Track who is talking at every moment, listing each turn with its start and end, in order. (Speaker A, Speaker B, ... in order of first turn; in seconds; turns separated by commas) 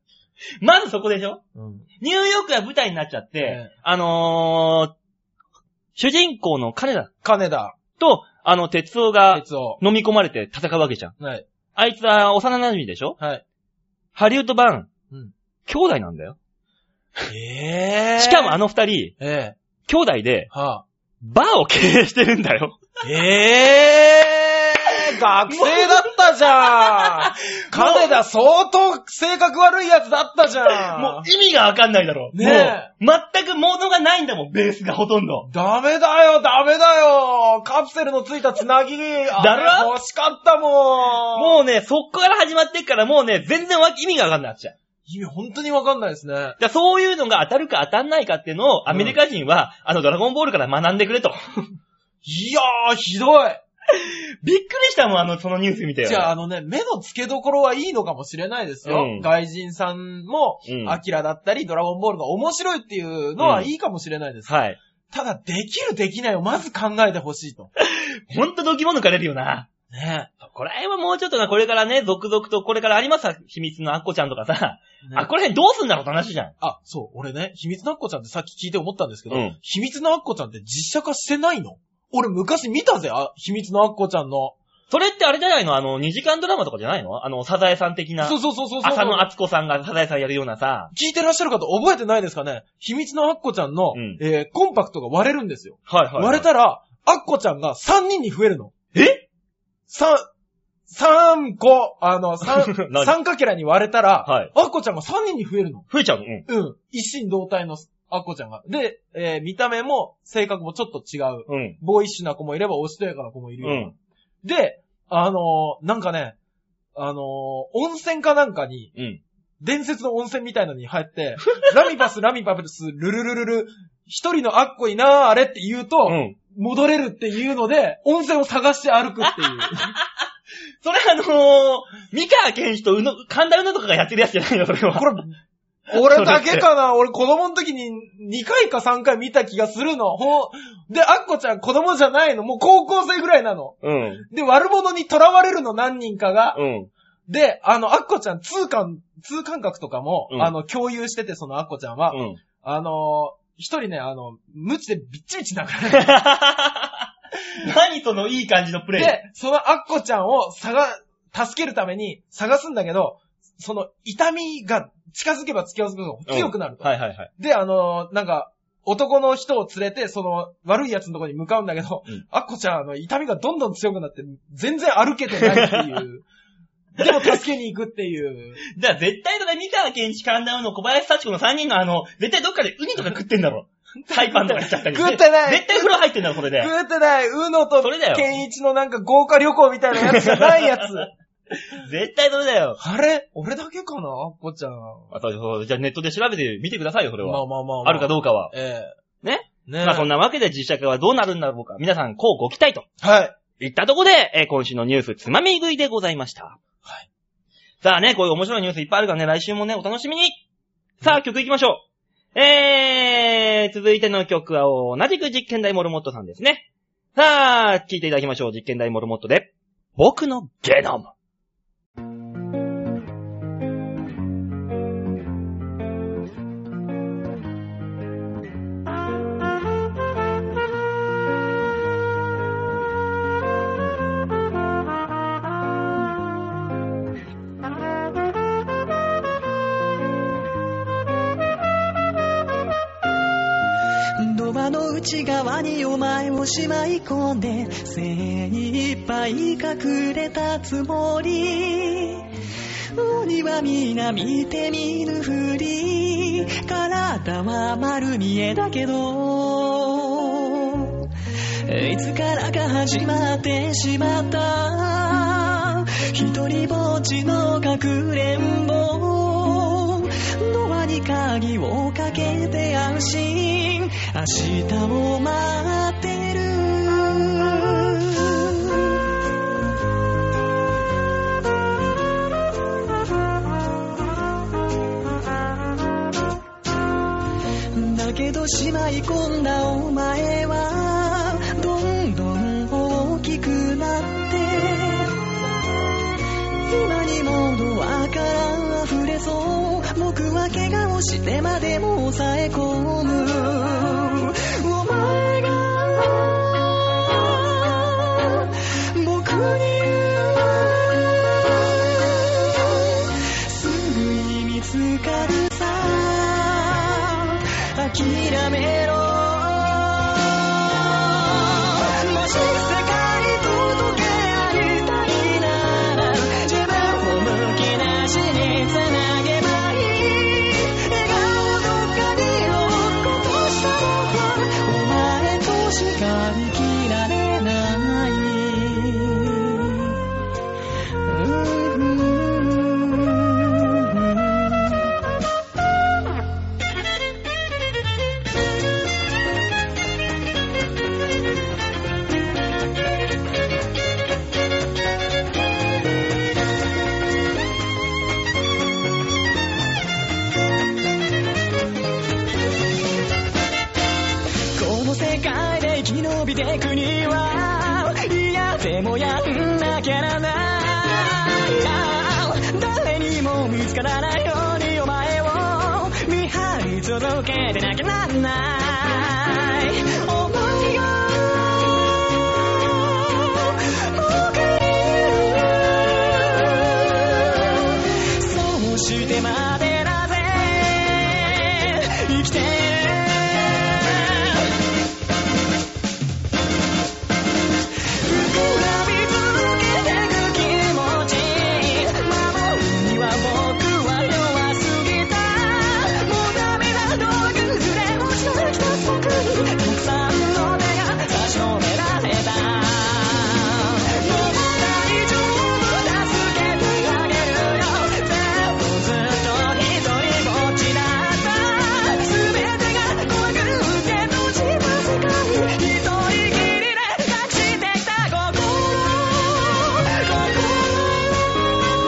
Speaker A: 0.6-1.4, Speaker B: 1.6-1.9, Speaker A: 2.0-4.9, Speaker B: 3.4-3.7, Speaker A: 6.0-7.1, Speaker B: 7.2-7.8, Speaker A: 8.0-11.1, Speaker B: 9.3-9.8, Speaker B: 11.2-11.4, Speaker A: 11.8-13.2, Speaker A: 14.2-14.9, Speaker A: 15.7-16.4, Speaker B: 17.3-18.6, Speaker A: 18.2-19.1, Speaker B: 19.2-19.6, Speaker A: 19.9-20.5, Speaker B: 20.5-20.8, Speaker A: 21.2-22.8, Speaker B: 23.0-31.3, Speaker A: 25.5-28.2, Speaker A: 30.7-35.5, Speaker B: 32.3-32.9, Speaker B: 35.5-41.6, Speaker A: 39.4-39.9, Speaker A: 41.3-44.8, Speaker B: 45.1-46.6, Speaker A: 46.6-51.6, Speaker B: 48.9-49.2, Speaker B: 52.2-53.6, Speaker A: 53.9-56.3, Speaker B: 56.0-64.5, Speaker A: 58.9-59.3, Speaker A: 60.7-61.0, Speaker A: 63.4-63.7, Speaker A: 64.5-64.8, Speaker B: 65.1-67.7, Speaker A: 67.8-69.7, Speaker B: 69.9-70.3, Speaker A: 70.4-76.5, Speaker B: 75.0-75.3, Speaker B: 76.6-84.6, Speaker A: 79.3-79.6, Speaker A: 84.9-90.9, Speaker B: 88.2-89.3, Speaker B: 90.9-98.7, Speaker A: 93.9-94.2, Speaker A: 95.9-96.5, Speaker A: 98.9-99.2, Speaker B: 99.9-100.3, Speaker B: 100.9-105.9, Speaker A: 102.5-103.1, Speaker A: 104.2-104.5, Speaker A: 105.9-106.5, Speaker B: 106.5-113.9, Speaker A: 111.5-111.8, Speaker A: 113.6-113.9, Speaker B: 114.4-116.4, Speaker B: 117.0-118.9, Speaker A: 119.0-119.2, Speaker B: 119.6-129.9, Speaker A: 126.1-126.4, Speaker A: 129.6-130.0, Speaker A: 130.8-135.2, Speaker B: 134.9-135.3, Speaker B: 135.9-146.6, Speaker A: 135.9-136.7, Speaker A: 143.8-144.2, Speaker A: 146.5-146.9, Speaker B: 147.3-156.1, Speaker A: 152.1-152.4, Speaker A: 155.9-159.2, Speaker B: 159.0-176.3, Speaker A: 166.3-167.3, Speaker A: 175.4-175.8, Speaker B: 176.9-178.6, Speaker A: 178.8-186.7, Speaker B: 184.0-185.9, Speaker B: 186.6-191.1, Speaker A: 187.8-188.3, Speaker A: 190.0-191.0, Speaker A: 191.7-192.8, Speaker B: 192.8-195.1, Speaker A: 195.1-198.5, Speaker B: 197.2-198.9, Speaker A: 199.2-202.9, Speaker B: 199.7-200.1, Speaker B: 203.0-203.3, Speaker A: 203.6-206.6, Speaker A: 207.8-210.4, Speaker A: 211.0-211.8, Speaker A: 212.3-216.6, Speaker A: 217.2-221.1, Speaker C: 244.2-252.3, Speaker C: 252.9-261.1, Speaker C: 261.7-279.0, Speaker C: 287.7-295.2, Speaker C: 296.7-340.1, Speaker C: 341.1-344.9, Speaker C: 364.6-394.6, Speaker C: 398.0-431.6